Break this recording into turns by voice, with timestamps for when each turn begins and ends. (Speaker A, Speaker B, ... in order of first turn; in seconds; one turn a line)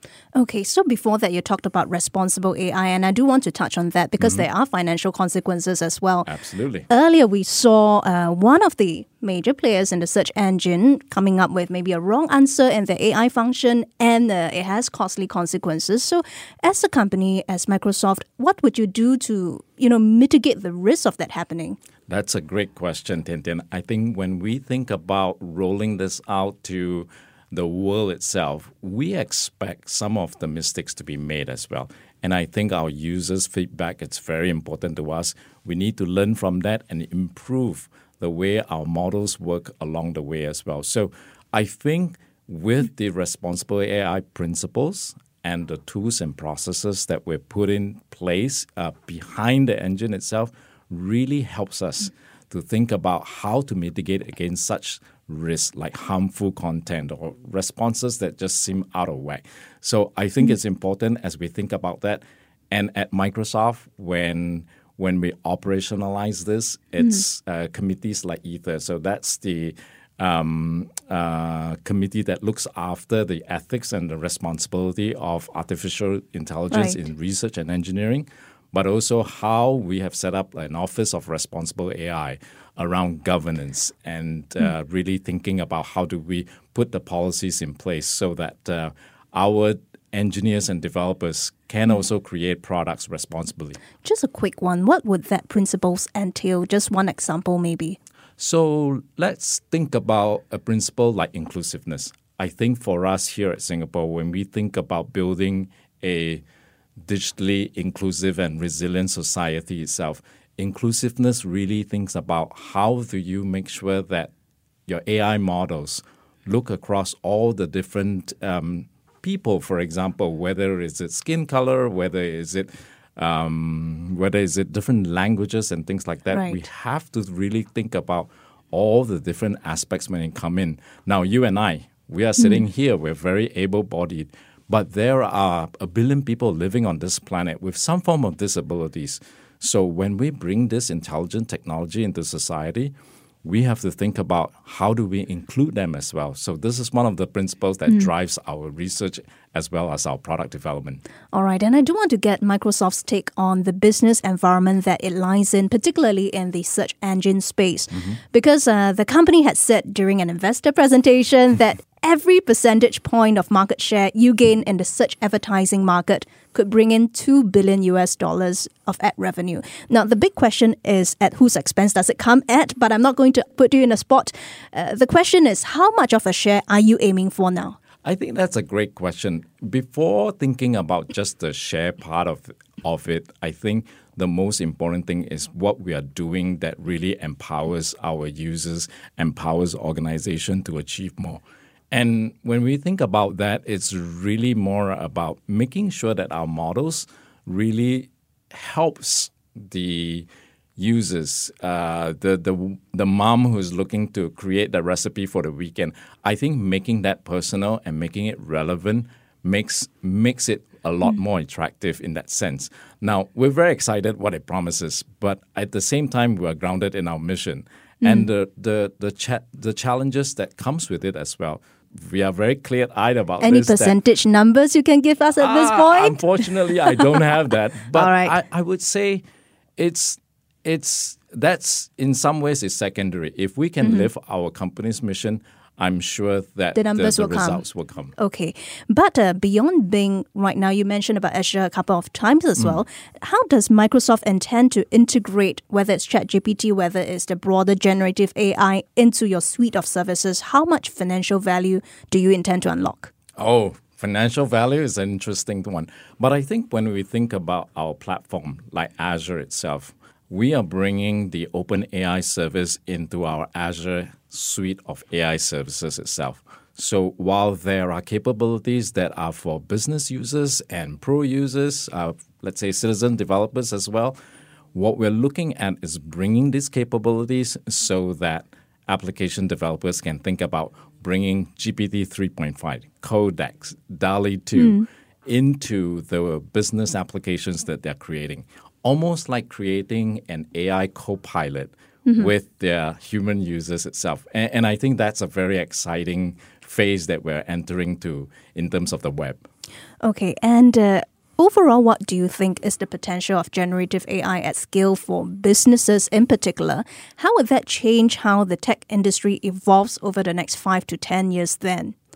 Speaker A: 0.3-6.3
Speaker B: 4.2-4.5
Speaker B: 6.3-6.9
Speaker A: 6.9-21.8
Speaker B: 22.1-93.8
Speaker A: 76.7-77.0
Speaker A: 94.0-98.0
Speaker B: 98.4-106.4
Speaker B: 107.0-114.3
Speaker B: 114.9-142.9
Speaker A: 126.3-126.6
Speaker A: 132.4-132.6
Speaker B: 143.4-151.0
Speaker A: 151.3-177.8
Speaker B: 157.9-158.2
Speaker B: 178.0-224.0
Speaker A: 218.0-218.3
Speaker A: 223.4-227.3
Speaker B: 225.4-229.2
Speaker A: 227.9-228.4
Speaker B: 229.8-238.1
Speaker A: 233.8-234.1
Speaker A: 236.7-237.6
Speaker A: 238.2-253.1
Speaker B: 253.4-274.2
Speaker B: 274.7-299.4
Speaker A: 284.6-284.9
Speaker A: 292.1-292.3
Speaker A: 300.0-311.9